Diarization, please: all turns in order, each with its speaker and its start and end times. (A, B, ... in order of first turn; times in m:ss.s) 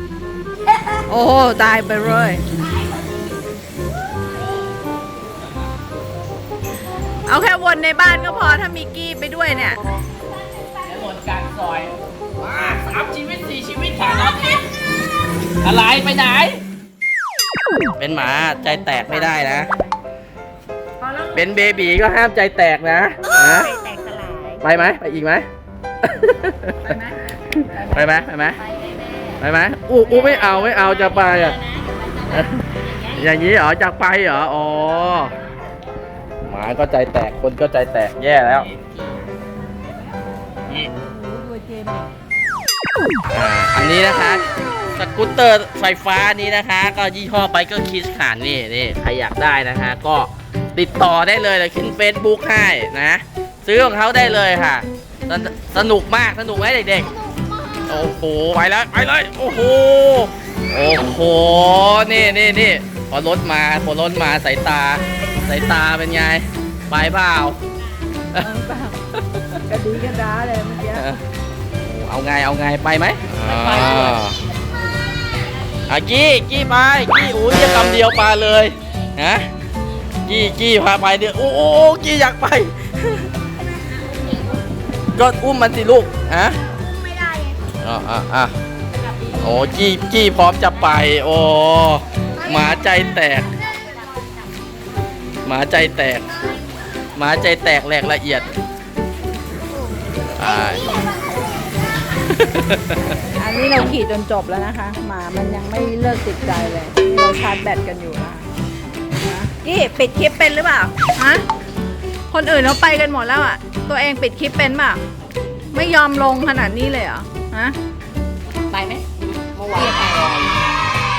0:00.6-0:01.0 A
0:01.1-0:02.4 B
0:07.3-0:09.8 B
0:10.8-0:14.6 C
0:15.6-0:16.6 C
0:18.0-0:19.7 C
0:18.2-0:19.9 D
0:21.0-0:22.0 D
0:21.3-0:23.7 C
0:23.2-0:24.6 A
0:23.7-0:24.2 B
0:24.6-0:25.5 C
0:26.0-0:27.0 C
0:26.8-0:29.4 B
0:27.5-0:28.6 C
0:29.4-0:31.6 C
0:30.0-0:30.5 B
0:31.1-0:32.4 D
0:32.3-0:35.3 C
0:32.9-0:33.2 D
0:36.5-0:38.7 C
0:41.2-0:41.7 D
0:41.3-0:41.9 B
0:43.3-0:57.1 C
0:57.0-0:58.1 A
0:57.9-1:07.6 C
1:08.4-1:09.0 B
1:09.1-1:09.6 C
1:09.7-1:11.1 B
1:10.9-1:11.2 C
1:11.8-1:14.4 C
1:13.4-1:14.3 D
1:14.7-1:15.7 A
1:15.9-1:19.5 C
1:20.2-1:23.3 C
1:23.6-1:24.4 A
1:25.1-1:26.6 C
1:26.7-1:27.7 A
1:27.8-1:28.5 C
1:29.0-1:29.8 D
1:29.4-1:33.5 C
1:32.3-1:34.2 A
1:35.4-1:36.3 C
1:36.3-1:36.6 A
1:37.2-1:38.6 C
1:39.7-1:42.0 A
1:40.4-1:41.0 C
1:42.3-1:43.1 C
1:43.4-1:48.5 B
1:49.2-1:51.4 B
1:52.3-1:55.0 B
1:55.7-1:57.8 B
1:58.7-1:59.0 D
1:59.5-2:00.5 D
1:59.7-2:00.2 B